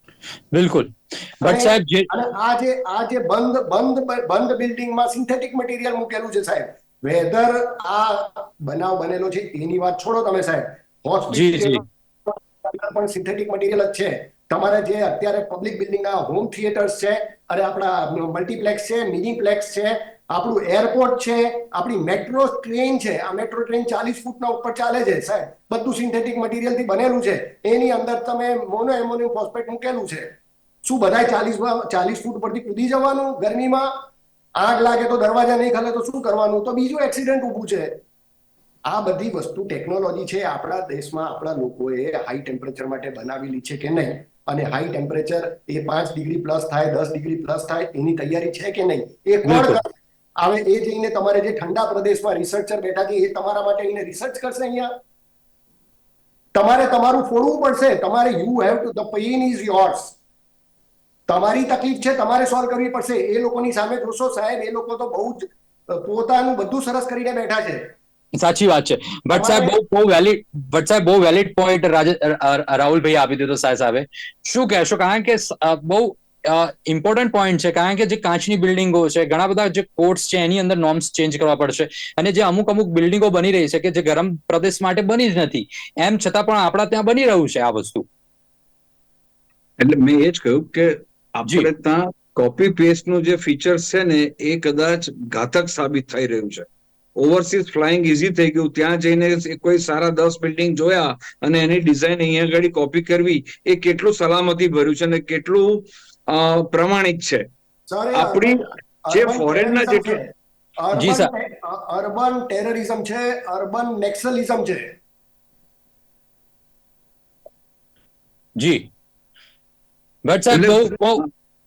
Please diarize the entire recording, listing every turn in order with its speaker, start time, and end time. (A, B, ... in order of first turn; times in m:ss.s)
0:00.5-0:02.1 A
0:01.4-0:30.3 B
0:11.3-0:11.8 A
0:30.8-0:38.0 B
0:38.8-0:54.9 B
0:49.4-0:49.8 A
0:56.5-1:00.2 B
1:01.3-1:07.9 B
1:08.4-1:28.0 A
1:09.3-1:09.7 B
1:29.8-1:36.6 C
1:37.2-1:47.4 C
1:47.9-1:55.0 B
1:48.1-1:50.2 C
1:50.9-1:51.3 A
1:58.6-1:58.9 A
2:00.2-2:01.2 A
2:00.5-2:01.0 C